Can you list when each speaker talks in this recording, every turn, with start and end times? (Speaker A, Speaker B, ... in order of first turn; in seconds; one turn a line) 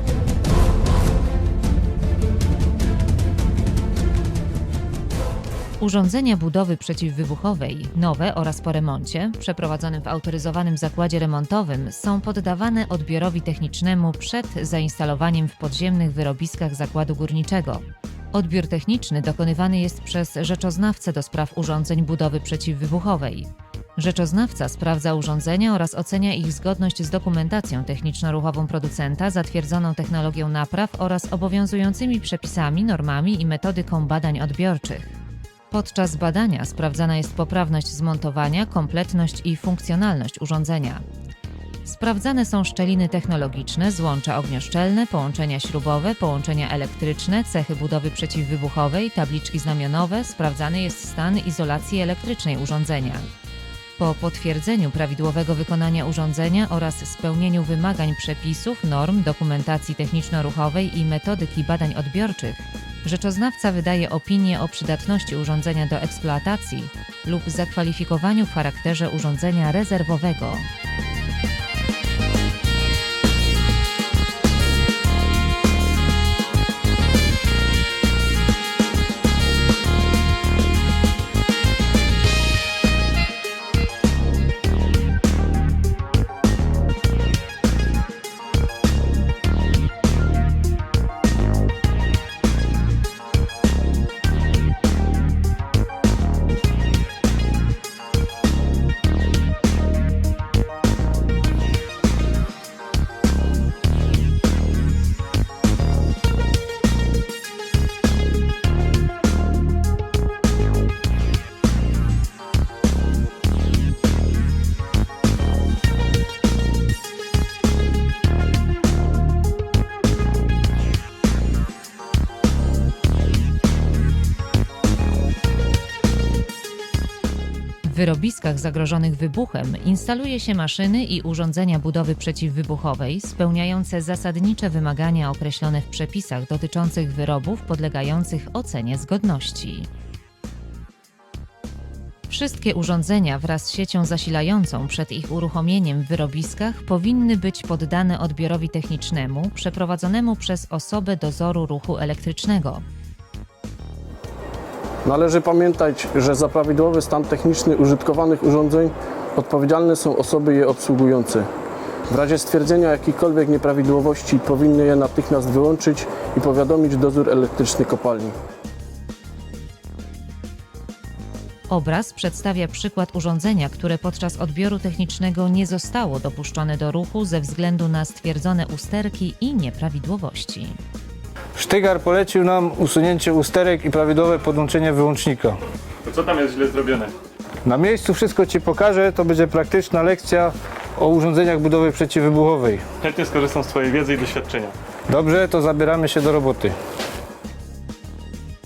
Speaker A: 5.8-35.2
Speaker A: 35.7-41.0
Speaker A: 41.8-53.3
Speaker A: 54.0-70.7
Speaker A: 127.8-139.9
Speaker A: 142.3-152.8
Speaker B: 155.0-161.5
Speaker B: 162.1-168.3
Speaker A: 171.7-180.8
Speaker C: 181.6-185.6
Speaker D: 186.0-187.1
Speaker C: 187.6-192.8
Speaker D: 193.0-194.7
Speaker C: 195.1-196.7